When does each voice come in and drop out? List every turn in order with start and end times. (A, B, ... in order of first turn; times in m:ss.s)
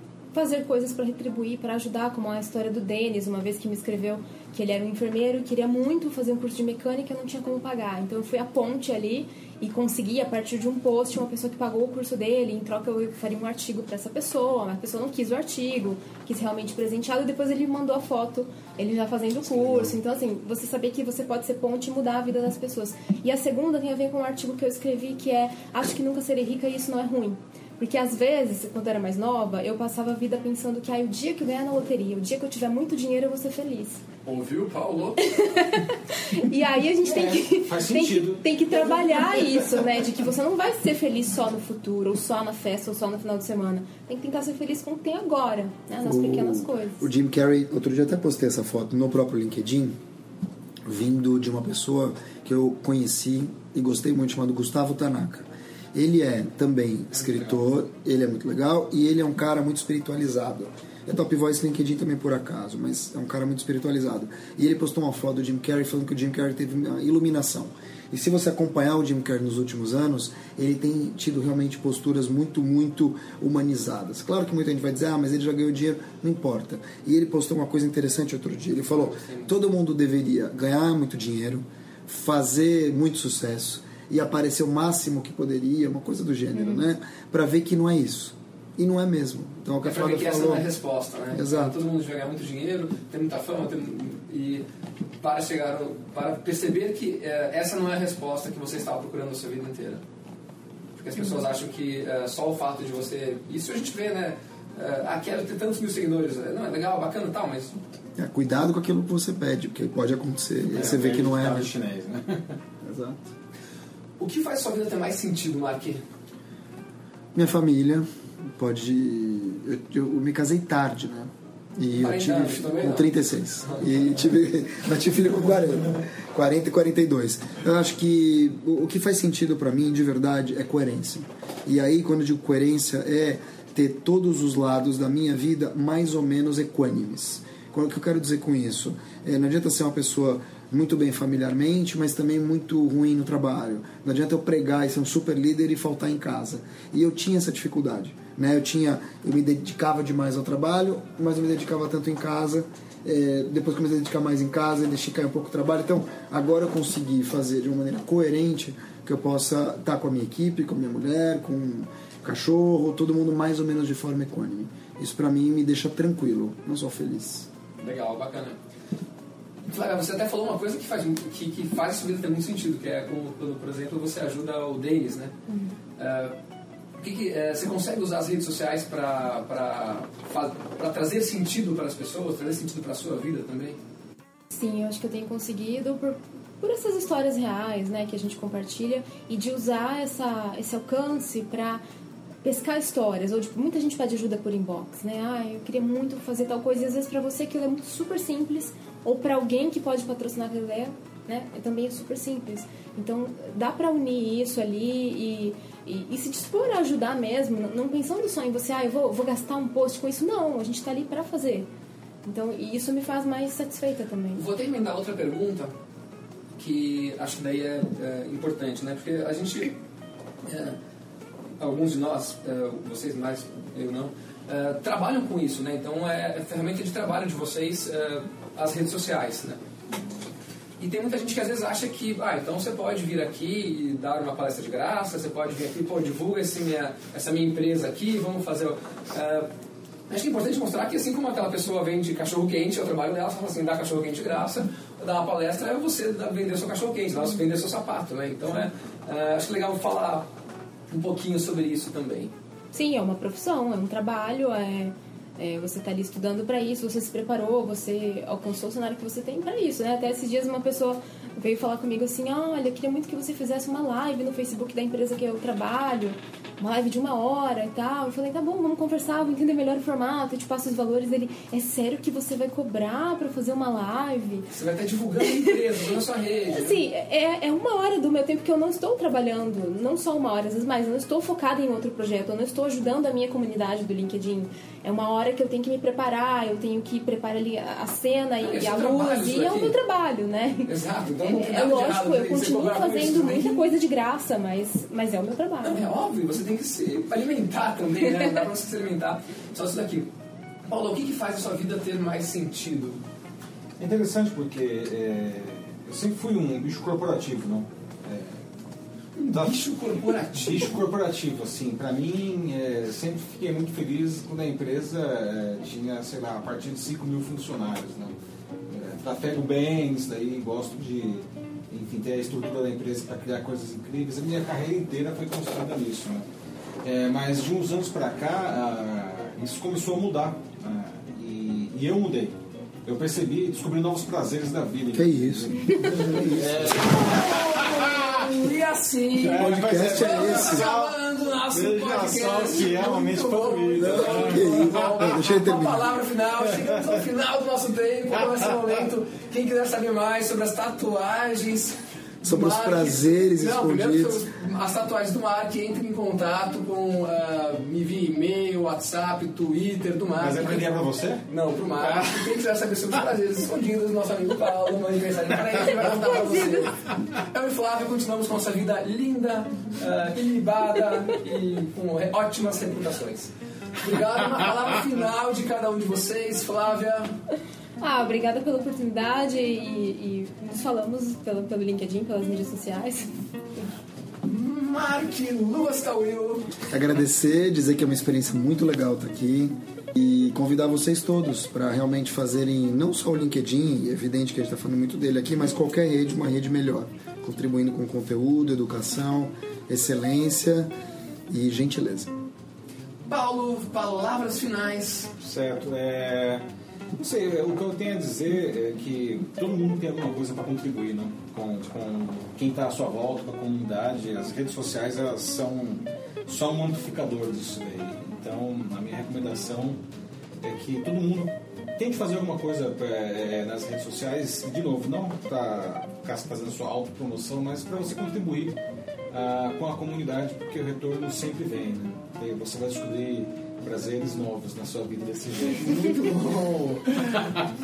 0:00.3-0:34.0 A
0:34.2-0:35.4 B
0:35.2-0:47.1 A
0:37.0-0:38.4 C
0:38.7-0:39.8 B
0:46.0-0:50.0 D
0:50.8-1:30.7 D
0:57.1-0:57.6 B
1:18.9-1:19.6 B
1:29.8-1:34.6 B
1:31.3-1:31.8 D
1:35.2-1:40.0 B
1:41.0-1:47.8 B
1:48.2-1:51.7 D
1:50.7-1:52.6 C
1:52.8-1:53.2 D
1:54.2-1:56.0 B
1:57.4-2:47.5 D
2:01.9-2:03.1 B
2:47.8-2:48.6 B
2:49.7-2:55.4 B
2:55.5-2:55.8 A
2:56.0-2:56.4 B
2:57.0-3:03.8 B
3:04.5-3:11.8 A
3:12.4-3:31.7 A
3:32.2-3:34.4 A
3:34.4-3:35.7 B
3:36.6-3:39.8 B
3:40.4-3:40.8 B
3:41.6-3:49.6 B
3:50.8-3:59.5 B
4:00.1-4:10.3 B
4:10.9-4:12.3 B
4:12.7-4:34.5 A
4:34.5-4:36.8 B
4:36.5-4:50.7 A
4:48.4-4:49.8 B
4:50.7-4:53.7 B
4:51.2-4:55.9 A
4:55.6-5:00.1 B
5:00.7-5:03.0 B
5:03.8-5:08.4 C
5:09.2-5:10.8 B
5:09.3-5:09.6 C
5:10.4-5:18.2 C
5:18.7-5:26.3 C
5:26.8-5:38.3 C
5:34.9-5:36.9 D
5:35.9-6:00.7 B
5:39.2-5:41.0 C
5:39.2-5:40.7 D
5:41.5-5:44.9 C
5:44.1-5:45.9 D
5:52.2-5:54.3 D
6:00.2-6:01.2 C
6:01.3-6:17.1 B
6:01.8-6:02.3 C
6:06.0-6:06.7 A
6:17.8-6:23.1 A
6:24.2-6:26.6 B
6:26.7-6:40.7 D
6:41.3-6:42.1 D
6:43.1-6:45.1 B
6:45.2-6:46.4 C
6:47.0-6:59.8 C
7:00.4-7:08.6 C
7:09.1-7:15.9 C
7:15.6-7:17.0 B
7:17.2-7:17.5 C